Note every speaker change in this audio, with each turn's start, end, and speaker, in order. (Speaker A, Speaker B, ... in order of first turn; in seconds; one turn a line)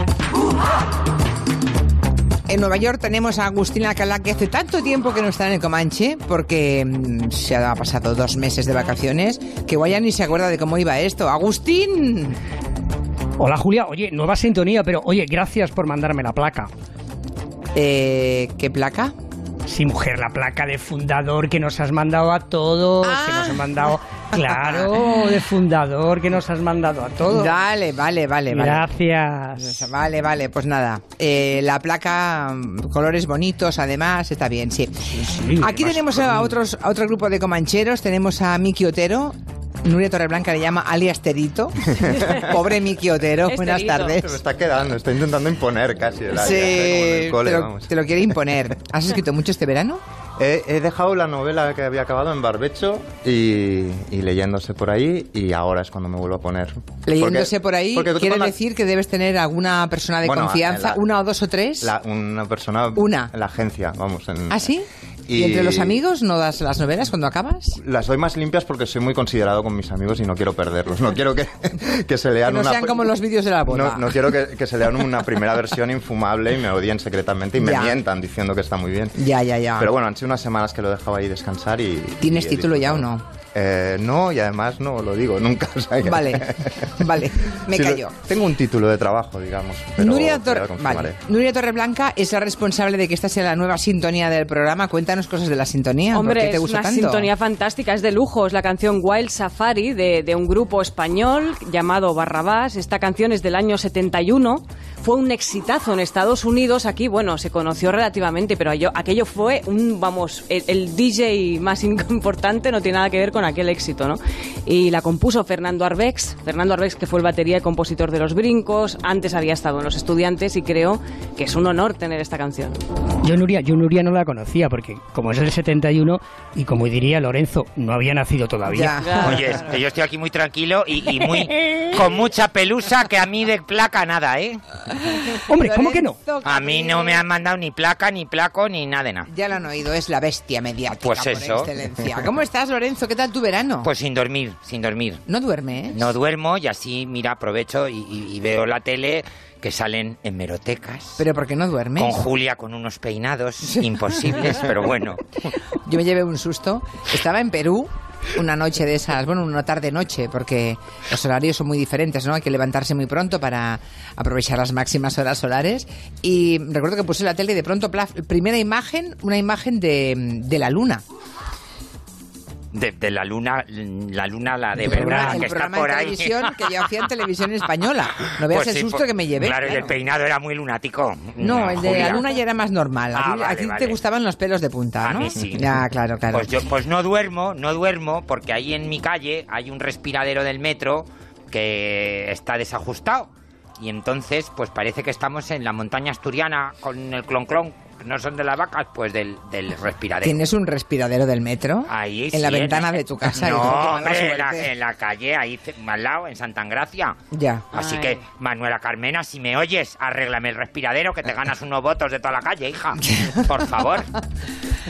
Speaker A: 2.5-12.4
Speaker B: 13.4-16.7
Speaker A: 17.8-19.1
Speaker B: 19.7-27.5
Speaker A: 23.0-23.8
Speaker A: 24.4-25.3
Speaker A: 27.3-28.9
Speaker B: 28.5-29.8
Speaker A: 29.6-44.3
Speaker B: 35.2-36.5
Speaker C: 41.9-42.3
Speaker D: 43.5-44.2
Speaker C: 44.2-47.9
Speaker A: 46.3-50.0
Speaker C: 50.4-58.5
Speaker A: 57.1-61.9
Speaker C: 60.2-61.0
Speaker C: 61.8-64.7
Speaker A: 63.0-63.3
Speaker A: 64.5-67.8
Speaker C: 65.3-66.0
Speaker C: 67.8-79.2
Speaker A: 72.5-74.3
Speaker A: 77.6-78.0
Speaker A: 79.2-79.9
Speaker C: 79.8-86.6
Speaker A: 82.2-83.2
Speaker A: 86.0-88.2
Speaker C: 87.7-91.2
Speaker A: 90.0-97.3
Speaker D: 96.1-122.8
Speaker B: 123.2-129.0
Speaker A: 128.7-129.4
Speaker D: 129.0-129.4
Speaker E: 129.2-134.6
Speaker A: 135.1-137.2
Speaker B: 135.5-136.2
Speaker E: 136.4-139.3
Speaker A: 139.3-143.9
Speaker E: 141.0-141.7
Speaker E: 143.8-145.2
Speaker A: 145.3-146.1
Speaker E: 145.9-151.2
Speaker A: 151.2-152.2
Speaker E: 152.0-155.2
Speaker A: 155.8-171.0
Speaker E: 172.7-176.6
Speaker B: 174.8-175.5
Speaker A: 174.8-179.9
Speaker E: 178.2-182.3
Speaker A: 181.4-186.6
Speaker E: 183.1-184.0
Speaker E: 185.0-185.7
Speaker E: 186.3-200.4
Speaker A: 200.2-204.7
Speaker E: 201.9-207.2
Speaker A: 207.3-207.7
Speaker D: 207.7-208.2
Speaker E: 207.7-214.1